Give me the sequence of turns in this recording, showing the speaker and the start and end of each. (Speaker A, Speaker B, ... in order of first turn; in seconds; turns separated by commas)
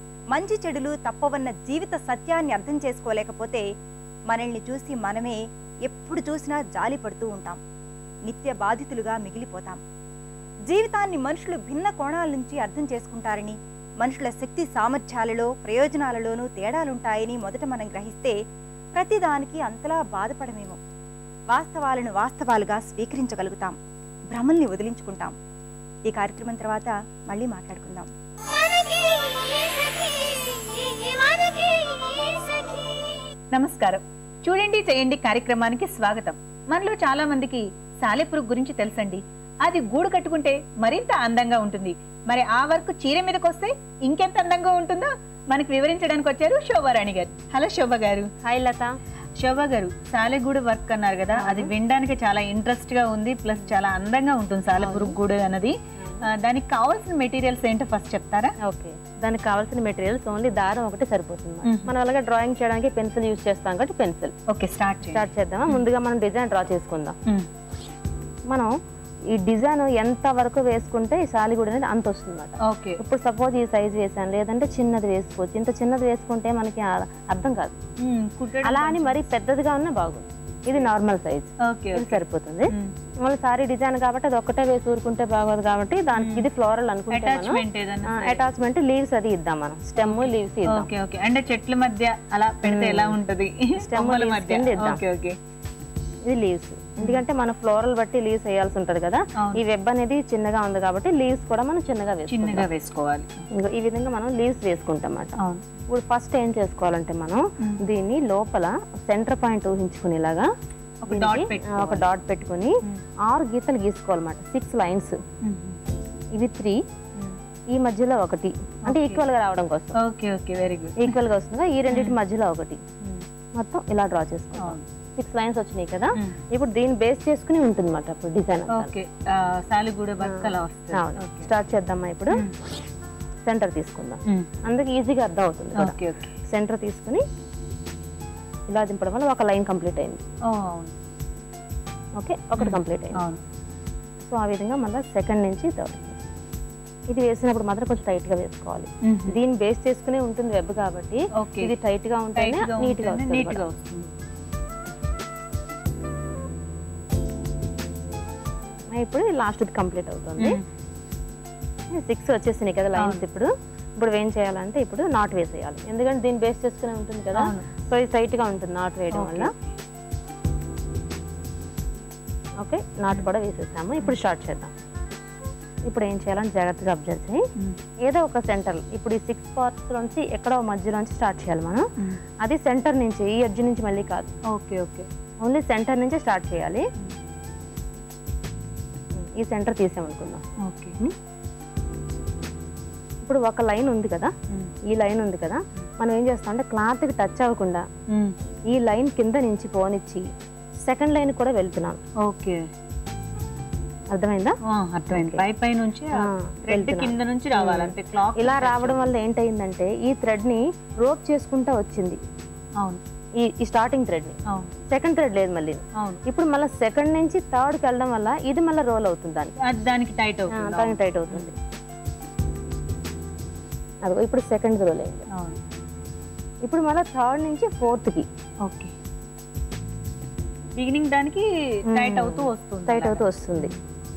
Speaker A: 0.3-3.6, Speaker A: 4.3-7.6, Speaker A: 8.3-9.8, Speaker A: 10.7-18.4, Speaker A: 18.9-20.8, Speaker A: 21.5-23.8, Speaker A: 24.3-25.3, Speaker A: 26.1-28.1, Speaker B: 33.5-48.3, Speaker C: 48.4-48.9, Speaker B: 49.4-58.5, Speaker C: 51.3-51.7, Speaker C: 54.8-55.2, Speaker C: 56.0-56.3, Speaker C: 58.6-64.4, Speaker B: 61.6-61.9, Speaker B: 64.5-65.8, Speaker C: 65.0-67.2, Speaker C: 69.3-77.8, Speaker B: 72.7-73.0, Speaker B: 78.1-79.2, Speaker C: 78.6-82.7, Speaker B: 81.7-82.9, Speaker C: 83.2-90.9, Speaker B: 86.2-86.5, Speaker B: 87.1-88.4, Speaker B: 90.0-95.3, Speaker C: 92.6-93.2, Speaker C: 93.8-95.0, Speaker C: 96.2-102.7, Speaker B: 97.0-97.2, Speaker B: 102.3-103.4, Speaker C: 103.5-105.4, Speaker C: 105.9-110.5, Speaker B: 111.0-112.1, Speaker C: 111.1-115.1, Speaker B: 115.4-115.8, Speaker C: 116.3-116.8, Speaker C: 117.7-120.0, Speaker B: 118.9-119.2, Speaker B: 120.0-121.2, Speaker C: 121.0-122.8, Speaker B: 121.9-122.2, Speaker C: 123.6-128.9, Speaker B: 124.6-124.8, Speaker B: 128.7-131.5, Speaker C: 130.2-132.5, Speaker C: 133.4-137.2, Speaker B: 135.8-136.4, Speaker C: 138.7-140.2, Speaker B: 140.5-140.9, Speaker C: 142.2-143.2, Speaker B: 142.6-143.4, Speaker C: 144.2-146.2, Speaker C: 147.1-153.6, Speaker B: 149.1-149.4, Speaker B: 151.3-151.7, Speaker B: 152.3-154.1, Speaker C: 158.9-160.6, Speaker C: 161.9-169.5, Speaker B: 163.0-163.2, Speaker B: 167.4-167.7, Speaker B: 169.1-169.7, Speaker C: 172.6-174.7, Speaker C: 175.9-177.4, Speaker C: 178.1-181.8, Speaker C: 182.4-184.3, Speaker B: 184.5-185.1, Speaker C: 185.4-186.8, Speaker C: 189.2-190.4, Speaker B: 190.6-191.0, Speaker C: 193.2-194.3, Speaker C: 194.9-197.9, Speaker C: 198.7-200.3, Speaker C: 200.8-202.0, Speaker B: 202.2-202.6, Speaker C: 204.1-204.6, Speaker B: 204.7-209.2, Speaker C: 205.1-205.4, Speaker C: 206.2-212.2, Speaker C: 213.4-219.6, Speaker B: 219.6-221.5, Speaker C: 220.5-221.6, Speaker C: 224.1-225.3, Speaker B: 225.3-225.6, Speaker C: 226.6-228.3, Speaker B: 228.7-228.9, Speaker B: 230.8-233.8, Speaker C: 231.9-233.7